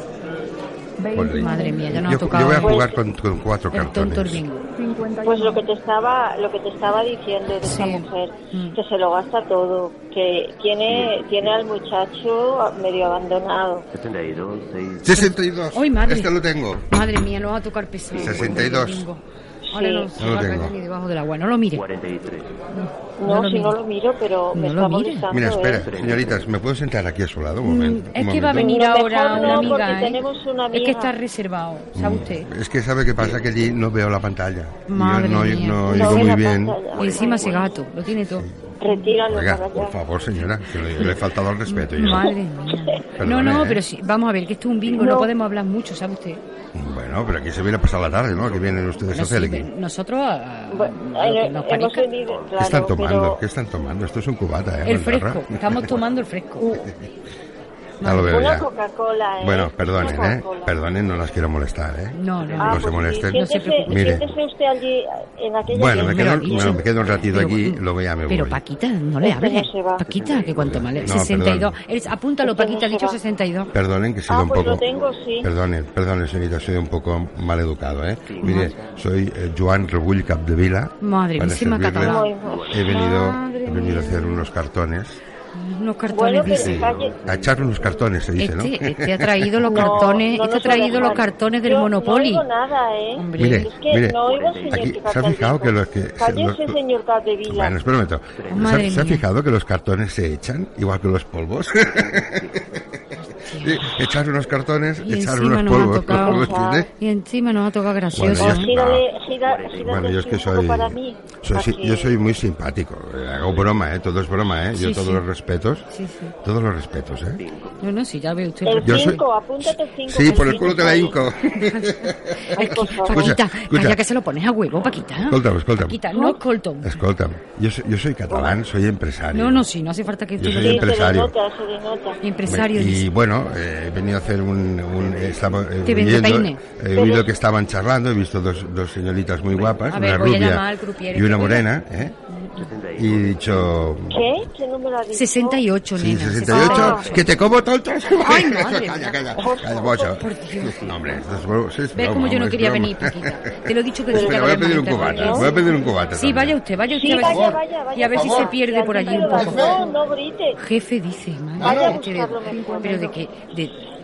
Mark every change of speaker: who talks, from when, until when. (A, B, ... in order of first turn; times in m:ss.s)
0:01.0-0:02.0 A
0:01.1-0:04.4 B
0:01.4-0:02.8 C
0:02.6-0:03.0 D
0:03.7-0:04.6 C
0:04.7-0:05.7 A
0:05.2-0:13.8 D
0:07.6-0:08.8 C
0:10.8-0:11.6 E
0:13.9-0:15.3 E
0:15.0-0:16.8 B
0:15.1-0:16.3 C
0:16.9-0:21.8 C
0:18.1-0:18.8 E
0:18.2-0:19.0 B
0:19.6-0:20.1 D
0:20.2-0:20.7 B
0:21.7-0:22.6 E
0:22.7-0:23.8 C
0:23.2-0:25.9 D
0:24.5-0:25.2 C
0:25.3-0:28.8 B
0:25.6-0:26.5 E
0:27.6-0:32.5 C
0:28.6-0:31.1 D
0:31.9-0:36.8 B
0:33.2-0:33.6 E
0:34.9-0:36.3 C
0:35.8-0:37.6 D
0:36.9-0:37.8 E
0:37.0-0:39.1 C
0:38.3-0:38.7 B
0:38.8-0:40.0 D
0:39.2-0:42.3 B
0:41.0-0:46.4 C
0:43.2-0:43.8 B
0:45.0-0:45.3 D
0:46.7-0:49.7 B
0:48.4-0:49.1 E
0:49.1-0:52.1 C
0:50.7-0:53.4 D
0:52.2-0:52.7 E
0:52.6-0:56.0 B
0:54.8-0:56.8 C
0:56.6-0:57.0 B
0:58.0-0:58.5 C
0:58.0-0:58.7 B
0:58.2-1:00.7 D
0:59.4-1:04.3 B
1:02.1-1:04.2 C
1:02.4-1:02.9 E
1:02.6-1:06.8 D
1:05.7-1:08.6 B
1:05.8-1:13.7 C
1:06.8-1:07.5 E
1:09.2-1:10.0 D
1:10.0-1:11.2 E
1:10.6-1:11.7 B
1:12.4-1:13.2 D
1:13.7-1:14.8 B
1:14.3-1:15.5 D
1:14.8-1:15.1 E
1:15.4-1:25.2 B
1:18.2-1:19.0 E
1:18.4-1:18.7 C
1:21.0-1:22.3 C
1:22.0-1:22.7 D
1:22.4-1:22.9 E
1:22.8-1:24.5 C
1:25.5-1:26.7 C
1:26.1-1:27.1 D
1:26.4-1:28.0 E
1:26.6-1:29.9 B
1:28.4-1:32.4 C
1:29.6-1:37.8 D
1:30.8-1:31.2 E
1:33.1-1:33.7 C
1:33.4-1:34.2 B
1:34.2-1:35.4 E
1:34.7-1:36.8 B
1:37.5-1:42.6 B
1:38.4-1:38.8 E
1:38.5-1:39.2 C
1:41.8-1:42.8 E
1:43.2-1:44.0 C
1:43.6-1:46.9 B
1:45.0-1:48.7 C
1:46.1-1:46.9 D
1:48.1-1:49.0 B
1:48.3-1:52.1 D
1:49.4-1:50.1 E
1:49.8-1:55.8 B
1:54.7-1:55.2 C
1:55.9-1:56.3 C
1:56.4-1:57.4 B
1:57.4-1:57.8 E
1:57.8-1:59.1 C
1:58.6-2:01.2 D
1:58.8-2:04.0 B
2:00.2-2:00.9 C
2:01.6-2:01.9 C
2:02.5-2:03.3 D
2:02.5-2:07.0 C
2:05.1-2:06.0 B
2:06.8-2:09.6 B
2:09.3-2:10.9 C
2:10.4-2:11.3 B
2:10.6-2:12.2 D
2:12.2-2:13.1 C
2:12.4-2:22.1 B
2:14.9-2:15.7 E
2:15.8-2:16.6 C
2:16.9-2:17.3 D
2:19.9-2:21.7 C
2:22.3-2:22.6 C
2:22.6-2:24.3 E
2:23.0-2:24.3 B
2:24.1-2:25.6 D
2:25.1-2:27.1 C
2:26.0-2:33.4 B
2:26.5-2:27.1 D
2:26.8-2:27.4 E
2:28.2-2:29.2 C
2:29.4-2:30.2 D
2:30.2-2:30.8 C
2:30.7-2:31.2 E
2:31.9-2:35.5 C
2:34.1-2:38.5 B
2:34.1-2:35.5 D
2:36.1-2:39.8 C
2:36.9-2:40.6 D
2:38.9-2:39.9 A
2:39.3-2:39.8 B
2:40.6-2:43.8 C
2:41.6-2:42.0 B
2:41.6-2:43.2 D
2:42.4-2:43.1 A